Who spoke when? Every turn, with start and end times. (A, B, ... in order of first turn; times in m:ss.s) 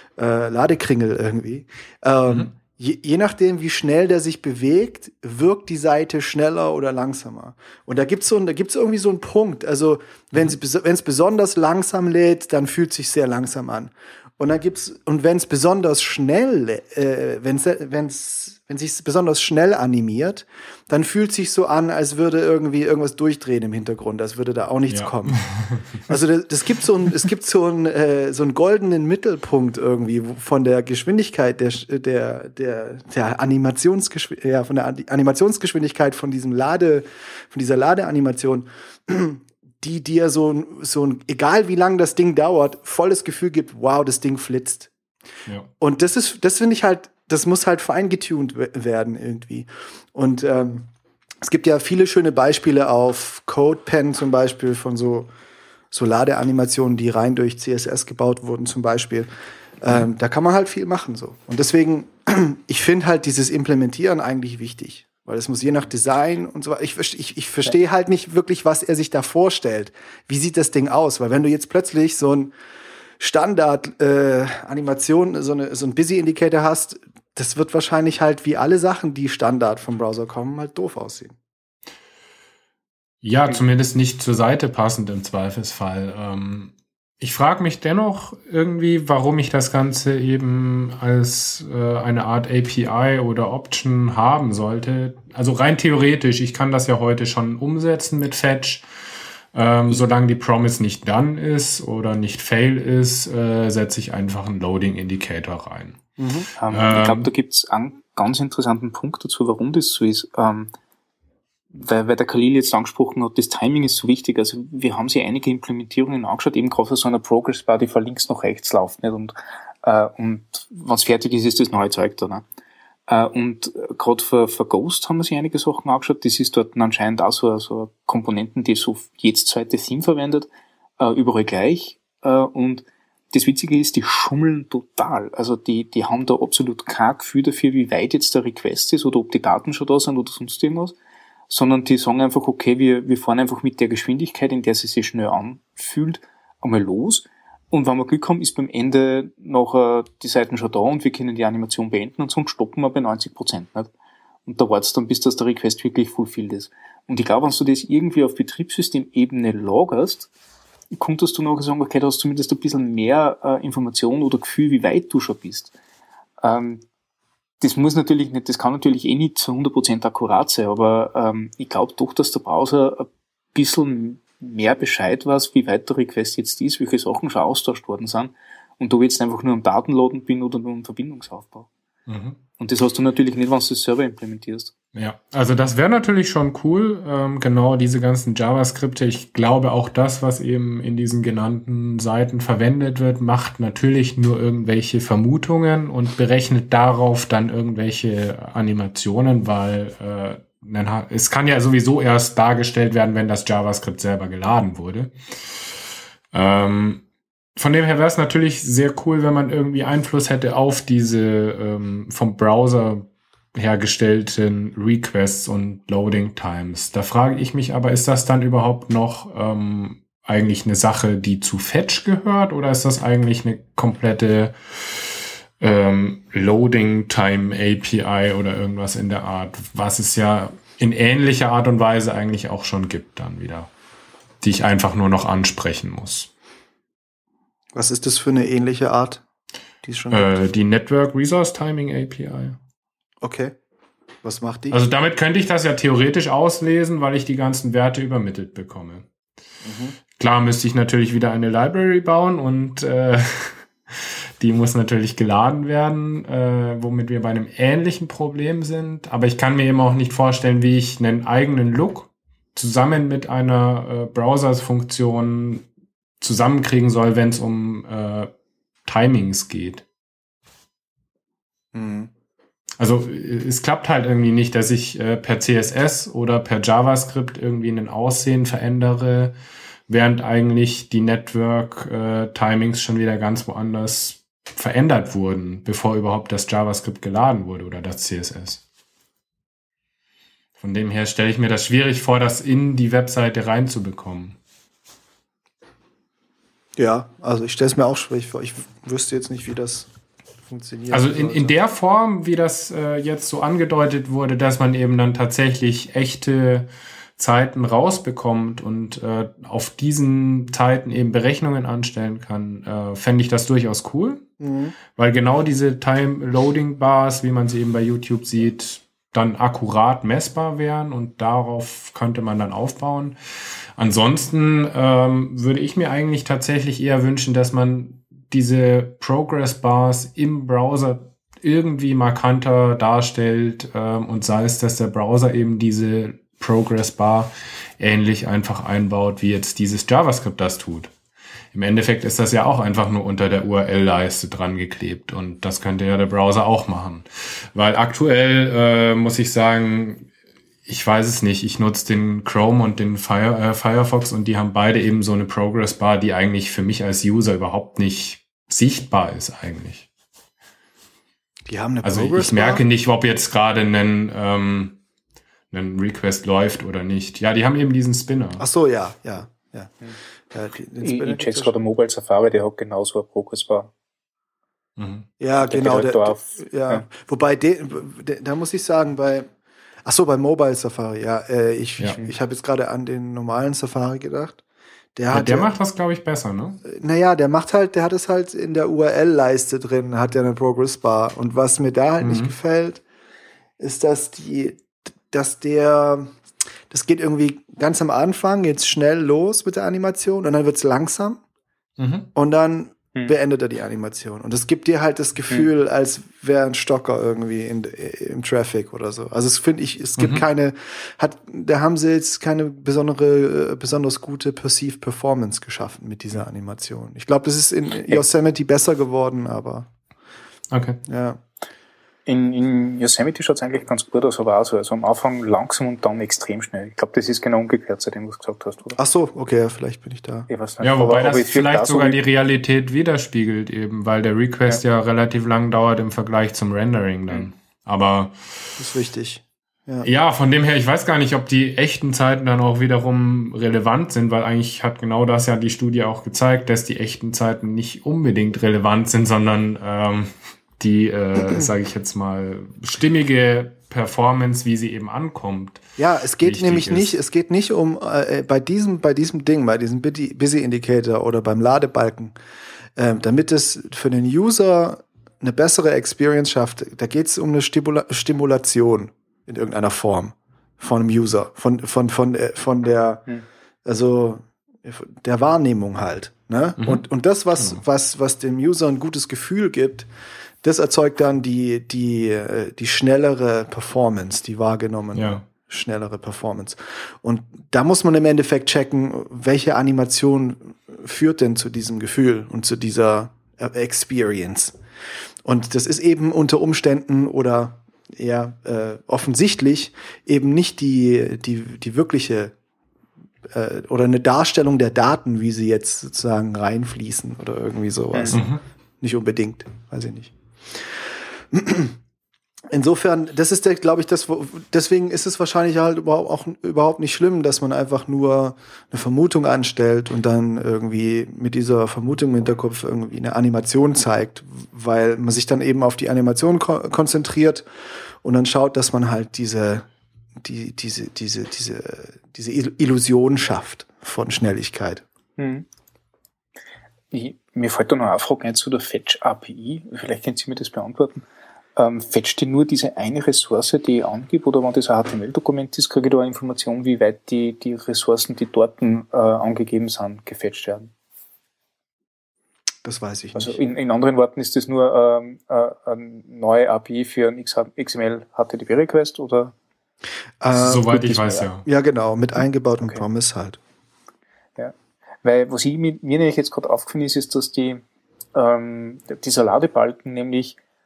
0:00.2-0:25.4 A
0:24.9-0:25.8 B
0:26.1-0:44.9 A
0:45.8-0:50.9 A
0:51.4-0:55.3 A
0:55.9-0:59.3 A
0:59.8-1:12.5 A
1:13.2-1:21.4 A
1:23.2-1:38.8 B
1:39.5-1:46.0 B
1:46.2-1:46.5 A
1:46.6-1:50.7 C
1:46.7-1:47.3 B
1:51.7-2:02.4 C
2:03.1-2:10.5 C
2:11.0-2:21.0 C
2:21.5-2:33.9 C
2:34.5-2:40.3 C
2:40.9-2:45.7 C
2:46.4-2:46.8 C
2:47.6-3:01.7 C
3:02.1-3:02.4 B
3:02.6-3:04.7 C
3:05.0-3:25.1 B
3:26.3-3:27.0 B
3:27.6-3:45.1 B
3:45.6-3:53.7 B
3:54.4-3:56.3 B
3:57.7-3:59.2 A
3:59.8-4:00.4 A
4:00.1-4:02.6 B
4:03.2-4:03.6 A
4:04.2-4:04.8 A
4:04.7-4:09.1 B
4:09.6-4:10.0 A
4:10.2-4:13.6 B
4:14.4-4:25.7 B
4:26.2-4:28.3 B
4:28.9-4:29.8 B
4:31.7-4:32.1 A
4:32.8-4:39.4 B
4:39.9-4:48.6 B
4:50.6-4:54.4 B
4:56.8-4:59.9 A
5:00.4-5:01.5 A
5:00.9-5:14.3 B
5:14.4-5:14.8 A
5:14.9-5:23.2 B
5:23.8-5:40.9 B
5:41.5-5:50.1 B
5:50.7-5:59.9 B
6:01.5-6:02.6 A
6:01.8-6:04.8 B
6:05.5-6:08.4 B
6:08.4-6:09.7 A
6:10.3-6:11.5 A
6:10.8-6:13.7 C
6:14.8-6:15.1 B
6:15.2-6:19.3 A
6:15.5-6:16.9 C
6:19.8-6:24.4 A
6:25.0-6:25.5 A
6:25.1-6:26.6 B
6:26.6-6:32.8 A
6:32.0-6:32.3 B
6:33.6-6:36.1 A
6:36.7-6:41.2 A
6:41.8-6:42.1 B
6:42.2-6:59.7 A
6:50.0-6:50.2 B
7:00.5-7:00.8 B
7:00.8-7:01.2 A
7:02.1-7:08.8 C
7:08.8-7:10.3 A
7:10.3-7:12.0 C
7:10.6-7:18.2 B
7:18.6-7:19.9 A
7:19.8-7:35.6 B
7:35.8-7:42.2 A
7:36.2-7:37.0 B
7:42.8-7:53.1 A
7:53.6-7:59.9 A
7:56.6-7:56.8 B
8:00.4-8:14.6 A
8:05.0-8:05.2 B
8:15.2-8:22.3 A
8:23.3-8:28.3 A
8:28.1-8:28.4 B
8:28.8-8:31.8 A
8:32.5-8:47.5 A
8:48.0-8:49.7 A
8:50.2-8:54.8 A
8:55.2-8:55.5 C
8:56.9-9:01.0 C
9:01.6-9:10.7 C
9:12.6-9:13.4 A
9:13.2-9:19.3 C
9:20.2-9:23.4 A
9:20.3-9:21.4 B
9:24.4-9:27.6 C
9:28.1-9:30.4 C